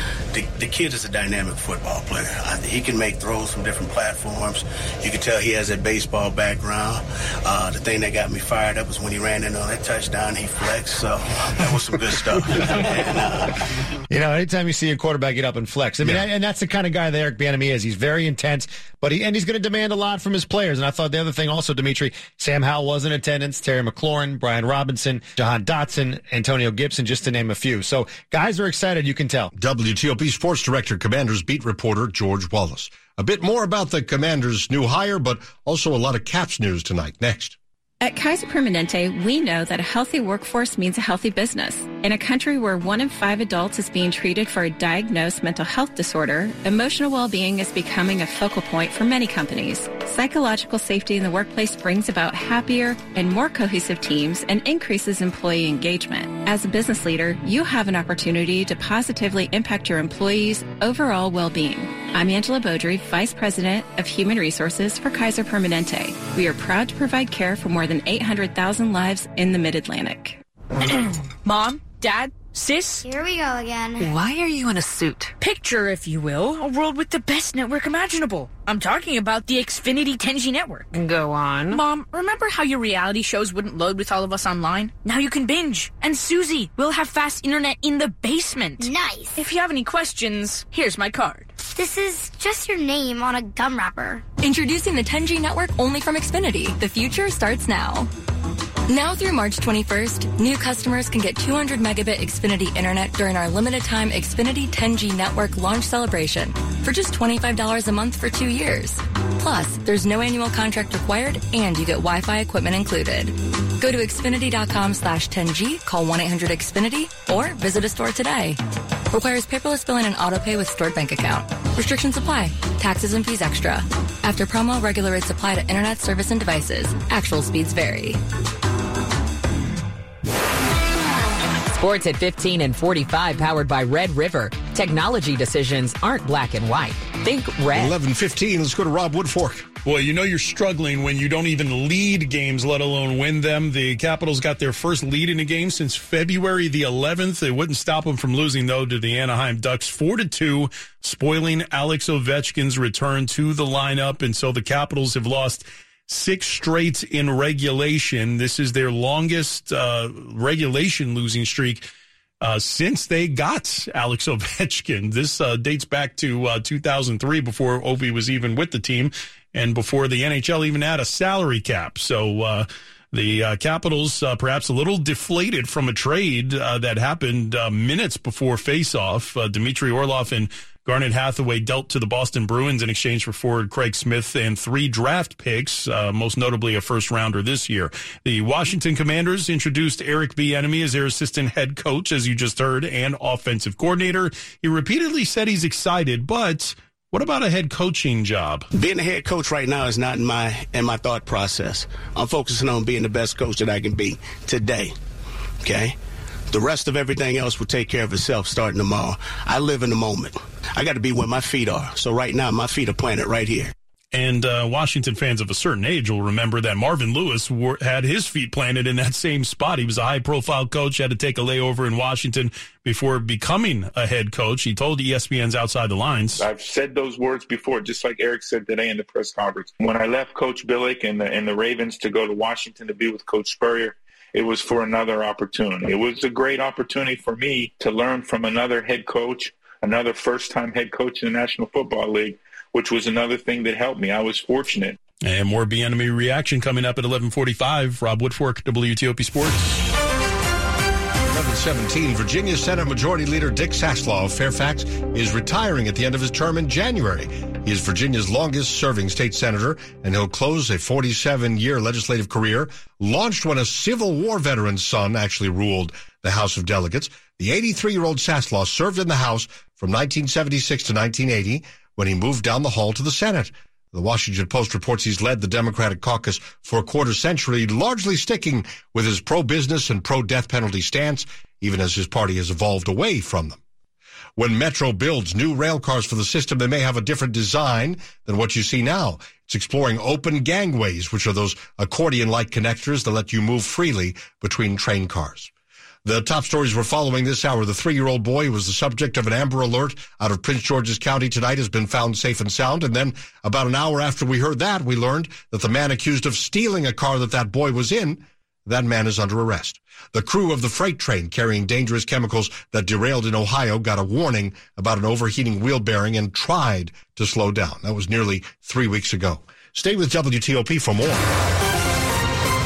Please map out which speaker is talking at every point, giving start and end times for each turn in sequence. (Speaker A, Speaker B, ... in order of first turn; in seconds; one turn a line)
Speaker A: 0.3-13.5
Speaker B: 14.1-29.5
Speaker C: 29.5-37.6
Speaker D: 38.0-70.4
Speaker E: 70.8-73.0
Speaker F: 73.0-74.1
Speaker E: 75.4-81.0
Speaker E: 81.7-91.5
Speaker F: 88.8-89.4
Speaker F: 91.7-94.3
Speaker G: 94.4-98.1
Speaker G: 98.9-118.6
Speaker G: 119.1-128.2
Speaker H: 131.7-137.9
Speaker C: 137.7-139.7
Speaker I: 139.8-161.8
Speaker I: 162.4-198.7
Speaker A: 198.7-204.9
Speaker A: 205.6-205.9
Speaker A: 206.5-213.7
Speaker I: 214.1-226.4
Speaker J: 226.4-245.0
Speaker I: 245.2-249.8
Speaker C: 251.3-283.6
Speaker C: 284.4-295.5
Speaker C: 296.1-321.2